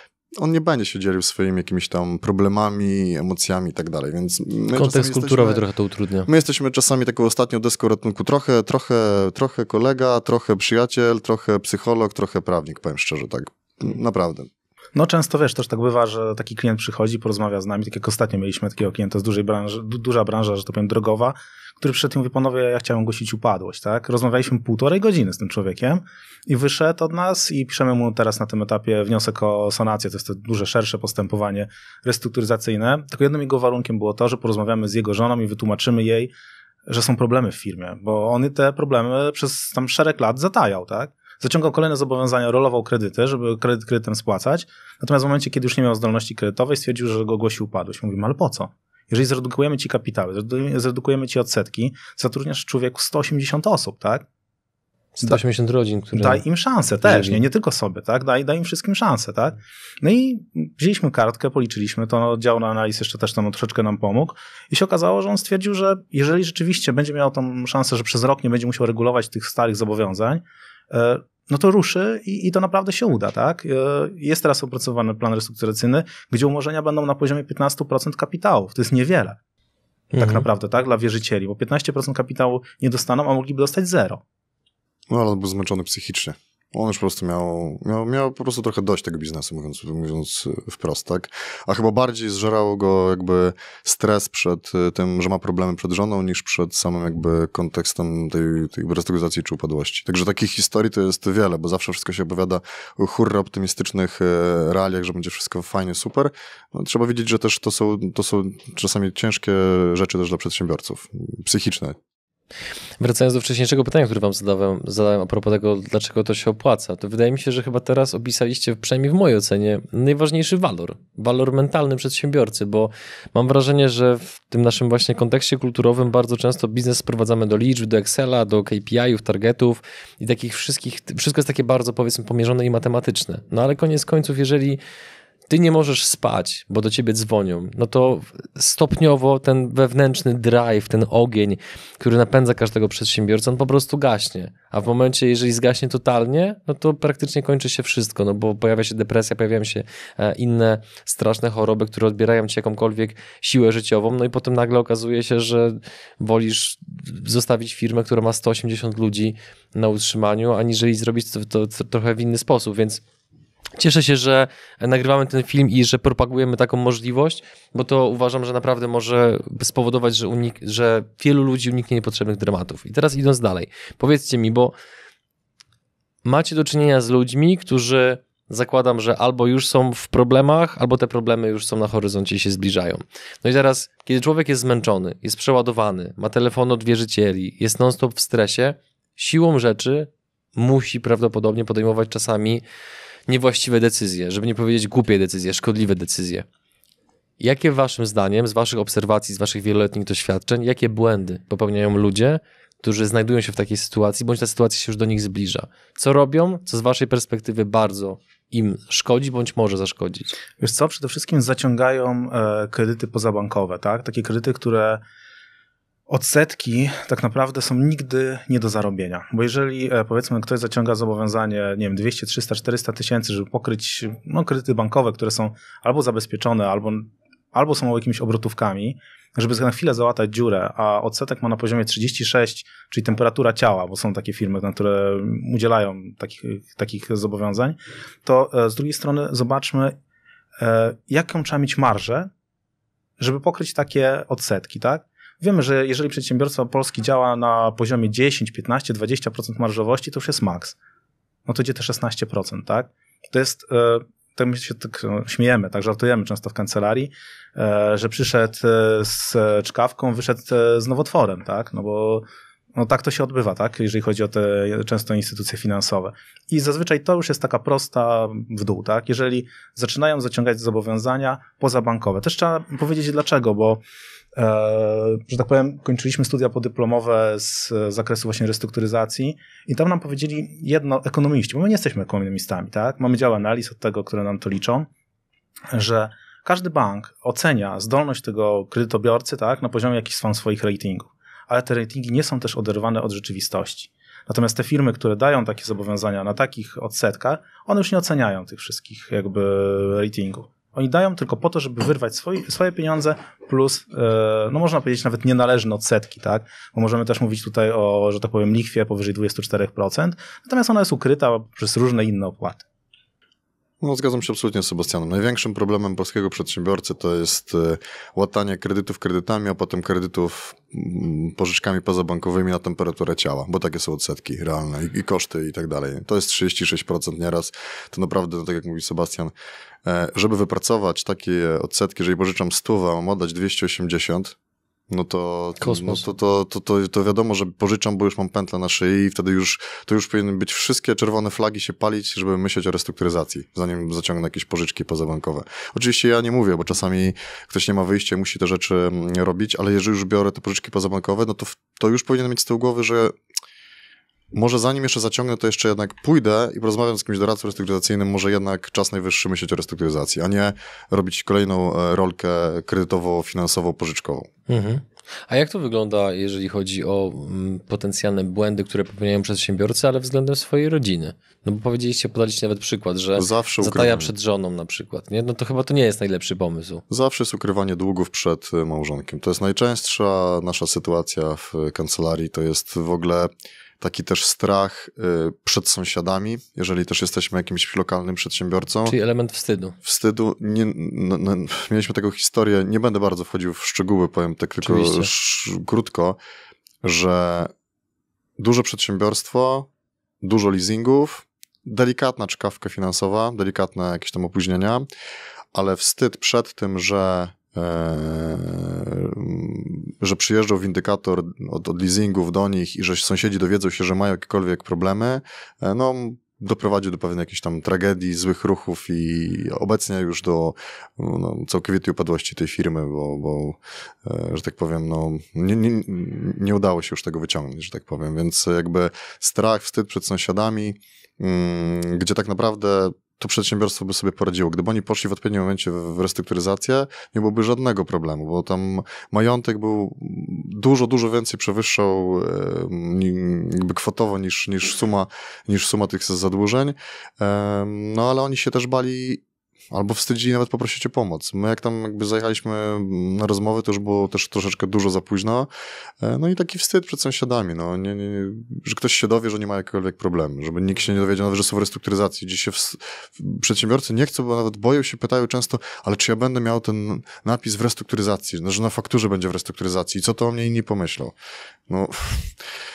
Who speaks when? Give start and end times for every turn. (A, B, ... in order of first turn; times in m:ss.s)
0:00.4-0:05.6 A
0:04.8-0:06.3 B
0:06.3-0:14.5 A
0:15.0-0:36.3 C
0:36.9-0:54.3 C
0:55.2-0:56.4 B
0:56.2-1:19.4 C
0:57.0-0:57.4 B
1:20.1-1:20.4 B
1:20.2-1:24.2 C
1:25.1-1:52.0 A
1:53.0-2:14.8 B
2:15.5-2:43.0 B
2:43.8-2:54.7 B
2:56.2-3:12.6 B
3:13.3-3:16.5 B
3:17.4-3:30.3 B
3:30.6-3:35.0 C
3:36.1-4:00.0 C
4:00.6-4:02.3 C
4:03.2-4:10.8 C
4:11.5-4:33.8 C
4:34.4-4:44.9 C
4:45.7-5:12.6 C
5:13.8-5:29.3 A
5:29.8-5:34.4 A
5:34.9-5:53.2 A
5:35.6-5:36.0 B
5:54.3-6:04.3 A
6:04.5-6:16.8 B
6:13.2-6:14.1 A
6:16.9-6:23.3 A
6:23.8-6:29.0 A
6:28.9-6:29.8 B
6:29.8-6:36.2 A
6:34.6-6:35.1 B
6:36.8-6:37.5 A
6:38.4-6:39.7 A
6:40.2-6:44.9 A
6:45.5-7:35.5 A
7:36.0-7:51.1 A
7:51.7-7:52.4 A